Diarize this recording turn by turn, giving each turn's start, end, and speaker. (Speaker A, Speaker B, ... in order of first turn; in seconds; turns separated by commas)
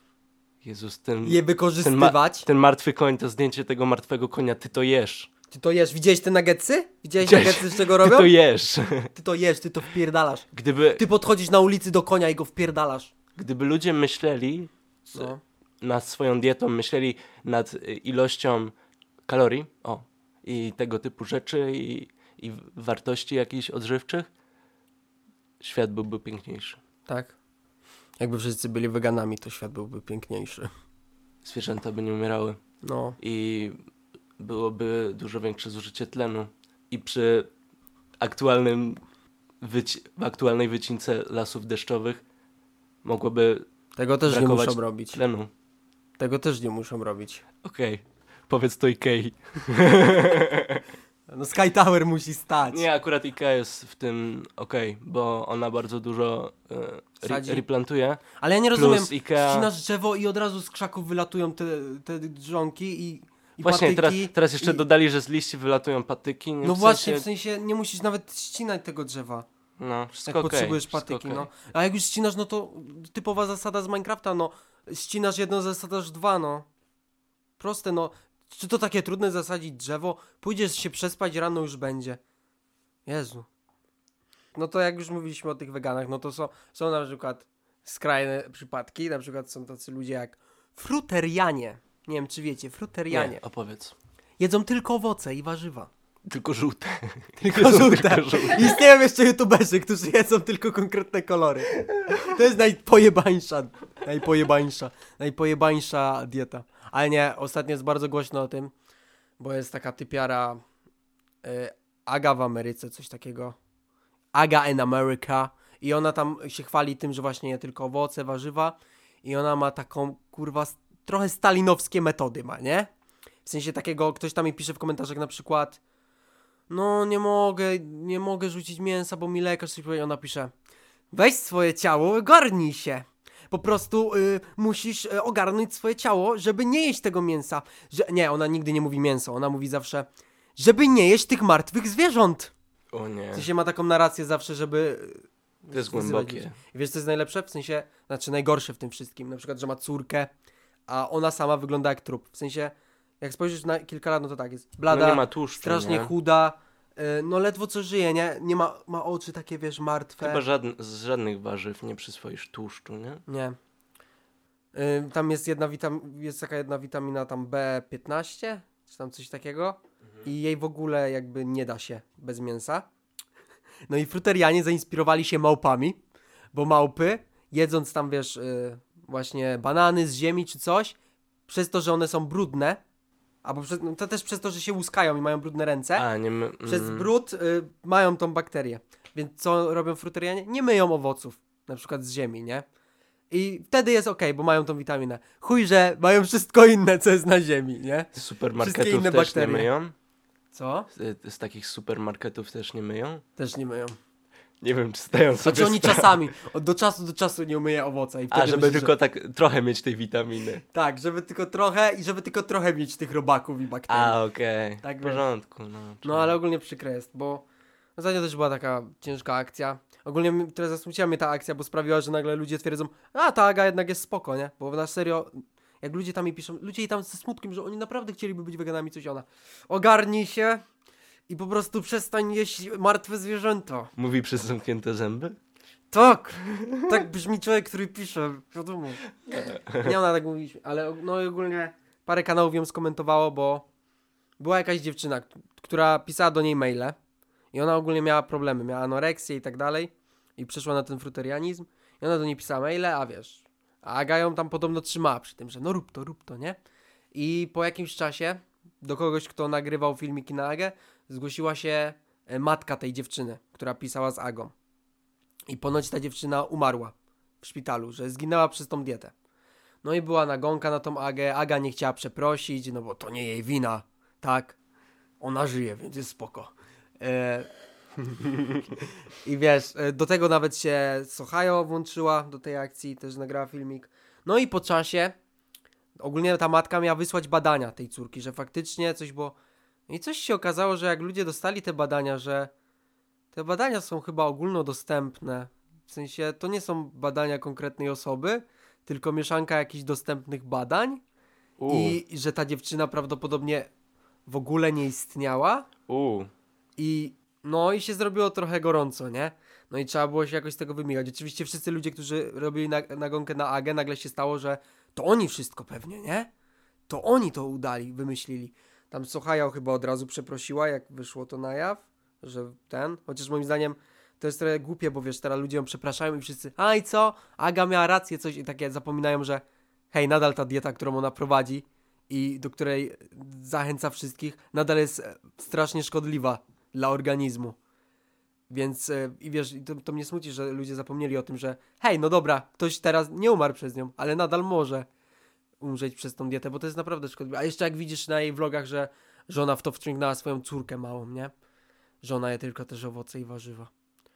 Speaker A: 0.6-5.3, Speaker B: 1.2-2.5, Speaker B: 5.5-8.3, Speaker A: 7.2-9.1, Speaker B: 9.2-13.1, Speaker A: 10.5-11.0, Speaker A: 13.4-18.7, Speaker B: 15.1-15.4, Speaker A: 19.3-24.3, Speaker A: 25.6-26.8, Speaker B: 27.1-27.4, Speaker B: 28.2-30.7, Speaker A: 31.4-32.6, Speaker B: 32.8-33.2, Speaker A: 33.2-33.8, Speaker A: 34.4-37.5, Speaker A: 38.2-39.0, Speaker A: 39.6-42.2, Speaker A: 43.0-43.6, Speaker B: 44.0-45.2, Speaker A: 44.3-45.5, Speaker B: 46.2-47.4, Speaker A: 47.6-50.8, Speaker B: 51.3-52.9, Speaker A: 52.7-59.7, Speaker B: 57.2-57.6, Speaker B: 58.4-64.8, Speaker A: 63.6-67.3, Speaker B: 66.6-69.5, Speaker A: 69.8-71.5, Speaker B: 70.3-76.7, Speaker B: 77.6-82.2, Speaker B: 83.1-83.5, Speaker B: 84.5-93.4, Speaker A: 93.1-93.9, Speaker B: 94.4-95.9, Speaker A: 96.3-98.8, Speaker B: 97.4-108.7, Speaker B: 109.4-110.6, Speaker B: 111.4-113.6, Speaker B: 114.3-122.9, Speaker B: 123.5-125.8, Speaker B: 126.7-130.5, Speaker B: 131.1-142.5, Speaker A: 142.9-143.5, Speaker B: 143.3-150.3, Speaker A: 145.7-146.5, Speaker B: 150.9-160.4, Speaker A: 154.9-156.1, Speaker A: 160.2-163.2, Speaker B: 163.3-163.6, Speaker B: 164.7-172.9, Speaker B: 173.9-176.0, Speaker B: 176.5-181.0, Speaker B: 181.5-182.8, Speaker B: 183.4-186.1, Speaker A: 186.0-187.1, Speaker B: 186.7-192.7, Speaker B: 193.3-199.7, Speaker A: 198.2-199.9, Speaker B: 200.5-200.9, Speaker A: 200.9-203.2, Speaker B: 203.4-203.9, Speaker A: 204.6-206.2, Speaker B: 205.4-208.9, Speaker A: 208.3-210.6, Speaker B: 210.7-214.2, Speaker A: 213.9-216.4, Speaker B: 214.8-215.2, Speaker B: 216.0-217.5, Speaker B: 218.0-230.6, Speaker B: 231.3-233.9, Speaker A: 234.0-235.4, Speaker B: 235.9-239.0, Speaker A: 236.5-236.9, Speaker A: 239.4-239.9, Speaker B: 239.8-243.7, Speaker B: 244.4-247.0, Speaker B: 247.5-256.6, Speaker B: 257.1-264.5, Speaker B: 265.5-269.1, Speaker B: 269.8-274.6, Speaker B: 275.2-285.2, Speaker B: 286.0-289.4, Speaker B: 289.9-292.5, Speaker B: 293.3-301.0, Speaker A: 301.6-302.0, Speaker B: 301.7-303.7, Speaker B: 304.3-305.7, Speaker A: 305.9-306.3, Speaker B: 306.8-316.3, Speaker B: 316.9-337.6, Speaker B: 338.5-344.9, Speaker B: 345.6-351.3, Speaker B: 352.0-353.7